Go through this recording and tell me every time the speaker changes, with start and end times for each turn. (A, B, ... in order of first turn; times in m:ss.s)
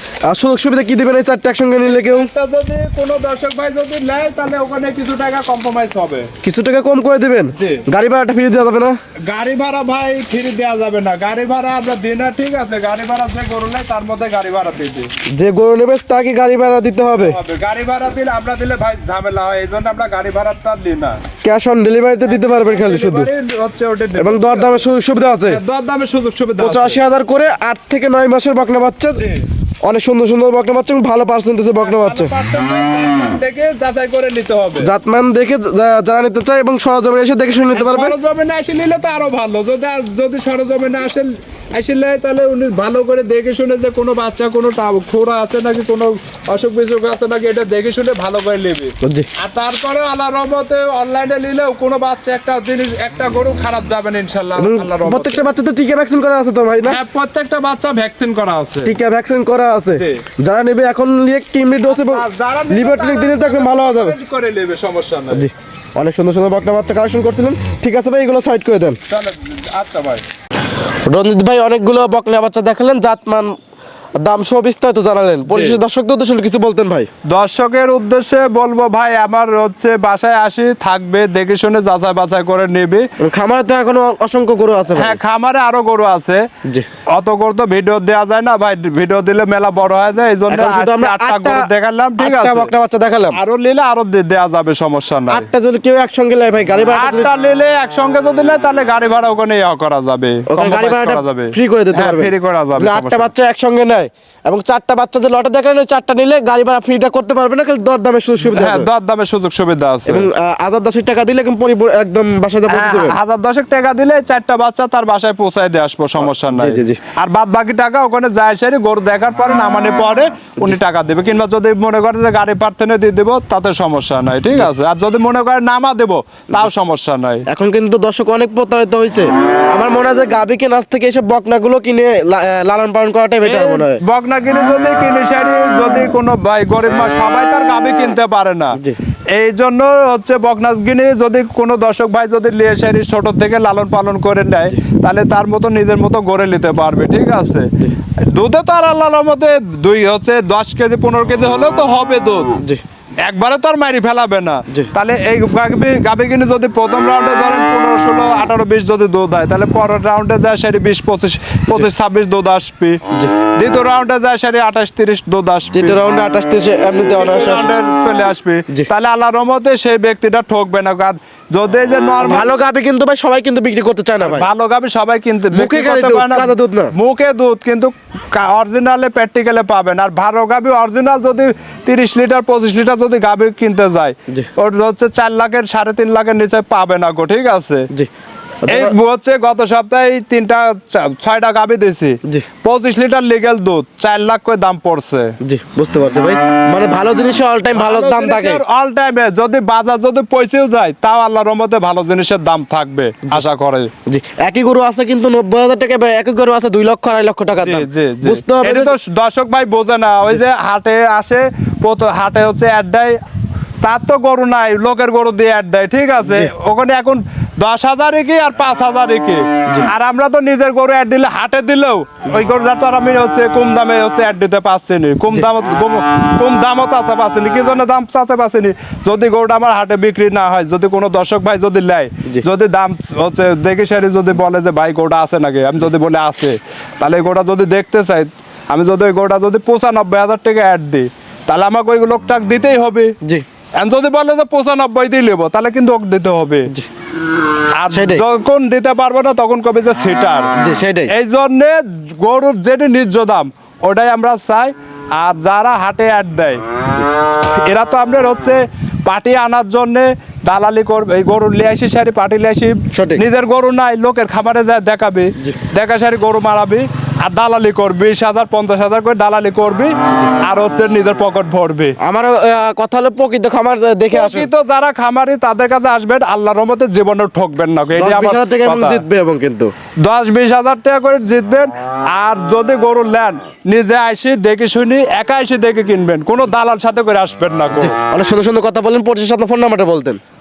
0:00.3-0:02.3 A
0:01.8-0:06.3 B
0:06.4-0:09.0 A
0:07.6-0:07.8 B
0:09.2-0:15.1 B
0:15.3-0:17.4 A
0:17.1-0:21.2 B
0:21.4-0:23.3 A
0:22.2-0:24.9 B
0:24.2-0:25.6 A
0:25.5-0:27.0 B
0:26.6-0:29.2 A
0:29.2-0:29.5 B
0:29.8-0:32.3 A
0:31.8-0:34.9 B
0:34.8-0:38.2 A
0:37.7-0:55.5 B
0:54.6-0:57.0 A
0:56.8-0:58.9 B
0:58.8-1:04.2 A
1:00.0-1:00.2 B
1:01.9-1:05.5 B
1:05.3-1:09.0 A
1:09.1-1:10.2 B
1:11.1-1:13.5 A
1:14.2-1:17.1 A
1:15.5-1:15.8 B
1:17.3-1:23.0 B
1:23.2-1:25.2 A
1:24.9-1:26.4 B
1:27.1-1:32.7 B
1:30.5-1:31.7 A
1:32.2-1:33.4 A
1:33.3-1:35.5 B
1:35.3-1:37.3 A
1:36.9-1:43.3 B
1:40.5-1:48.9 A
1:48.4-1:50.3 B
1:50.1-1:53.2 A
1:52.7-2:07.4 B
1:56.2-1:57.0 A
2:07.5-2:14.0 A
2:13.4-2:18.8 B
2:19.3-2:27.7 B
2:28.3-2:32.5 B
2:33.2-2:43.0 B
2:43.6-2:46.0 B
2:45.7-2:47.7 A
2:47.1-2:52.5 B
2:52.2-2:54.5 A
2:54.2-3:07.9 B
2:55.5-2:56.9 A
3:08.6-3:09.0 A
3:08.7-3:15.3 B
3:15.4-3:18.6 A
3:17.7-3:23.9 B
3:24.1-3:28.9 A
3:27.6-3:33.2 B
3:33.8-4:03.1 B
3:36.2-3:36.5 A
4:03.8-4:06.7 B
4:07.8-4:10.5 B
4:07.9-4:08.2 A
4:10.6-4:11.1 A
4:11.1-4:16.6 B
4:17.5-4:32.0 B
4:22.9-4:23.2 A
4:32.0-4:34.5 A
4:34.1-4:39.0 B
4:38.0-4:39.7 A
4:40.0-4:47.9 B
4:47.8-4:50.2 A